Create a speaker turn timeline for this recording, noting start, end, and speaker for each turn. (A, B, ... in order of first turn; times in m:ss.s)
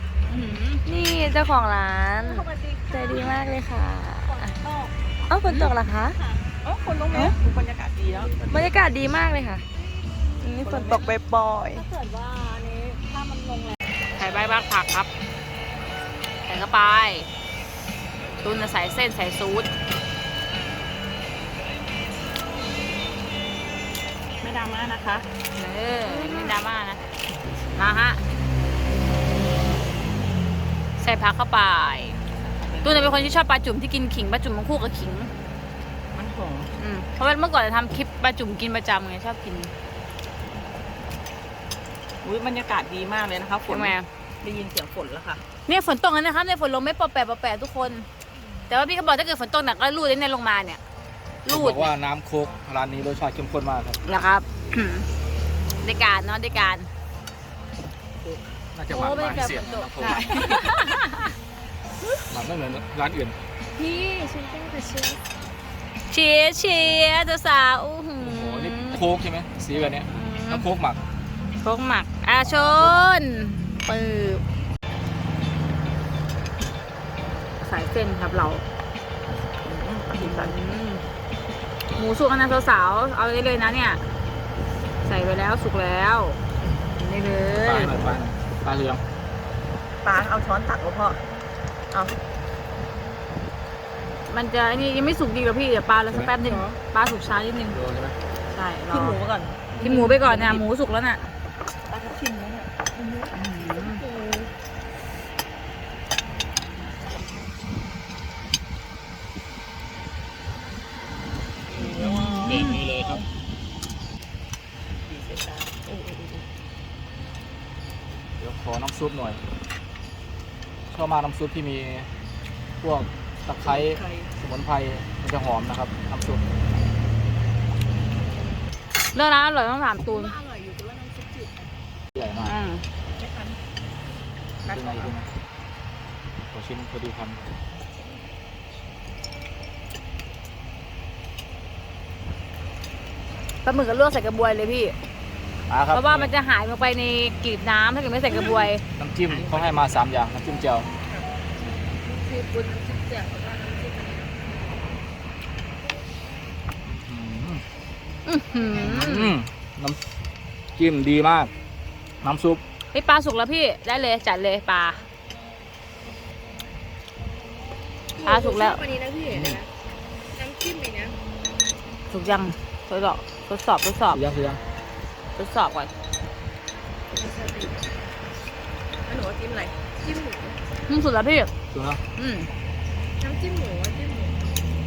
0:00.3-0:00.8 A
0:00.9-0:06.2 B
0:06.6-0:08.6 C
0:08.5-0:09.6 B
0:10.4-0:13.7 B
0:10.6-0:11.1 C
0:14.2-0:15.1 A
0:16.5-0:17.3 A
0:18.4-0:19.7 A
0:24.4-0:25.3 C
0:25.6-0:27.0 A
0:26.1-0:26.5 B
0:27.8-0:28.2 A
0:31.0-0:32.2 A
0:32.4-0:33.3 C
0:32.8-0:35.3 A
0:36.1-0:36.7 C
0:36.8-0:39.7 A
0:42.2-0:45.4 C
0:43.7-0:44.1 A
0:45.7-0:48.0 A
0:48.7-0:50.8 A
0:51.4-0:51.9 A
0:51.5-0:54.0 D
0:54.0-0:55.0 A
0:55.8-0:56.9 A
0:58.2-1:00.7 D
0:58.9-1:01.3 A
1:00.0-1:00.5 B
1:02.3-1:03.4 D
1:03.7-1:05.2 B
1:06.1-1:09.0 A
1:08.2-1:11.0 D
1:09.8-1:10.6 A
1:11.6-1:14.4 A
1:17.6-1:18.6 A
1:19.6-1:20.6 C
1:20.2-1:21.0 A
1:22.0-1:24.0 A
1:25.0-1:26.4 A
1:27.0-1:28.0 A
1:27.6-1:29.0 D
1:30.0-1:31.2 C
1:31.9-1:32.2 C
1:34.3-1:37.8 A
1:36.1-1:36.4 D
1:36.4-1:36.8 C
1:37.7-1:38.2 D
1:38.5-1:39.2 A
1:38.9-1:40.6 C
1:39.8-1:41.2 A
1:41.9-1:44.5 C
1:43.3-1:44.0 A
1:51.7-1:53.2 C
1:52.0-1:53.2 D
1:52.0-1:52.7 A
1:55.0-1:56.4 C
1:58.4-1:59.4 D
2:00.9-2:02.1 D
2:02.8-2:06.4 D
2:03.6-2:04.3 C
2:09.1-2:10.4 A
2:10.0-2:11.5 C
2:12.2-2:12.5 D
2:12.4-2:12.8 A
2:13.2-2:13.6 C
2:14.6-2:15.1 C
2:14.6-2:15.3 D
2:16.4-2:17.5 D
2:23.6-2:24.9 A
2:25.7-2:26.3 D
2:25.9-2:28.8 A
2:29.0-2:30.9 D
2:29.3-2:29.9 C
2:32.0-2:34.2 B
2:36.9-2:37.6 D
2:38.2-2:39.3 A
2:38.7-2:40.0 D
2:40.8-2:41.5 D
2:42.2-2:42.6 D
2:42.9-2:45.0 A
2:48.2-2:49.6 B
2:48.2-2:48.8 A
2:49.3-2:49.6 D
2:50.4-2:51.1 B
2:52.1-2:54.2 A
2:54.1-2:54.6 D
2:55.4-2:55.9 A
2:57.1-2:57.9 B
2:59.1-2:59.8 C
3:00.0-3:00.6 B
3:00.9-3:01.5 A
3:01.7-3:02.0 D
3:02.2-3:02.5 A
3:03.2-3:04.4 B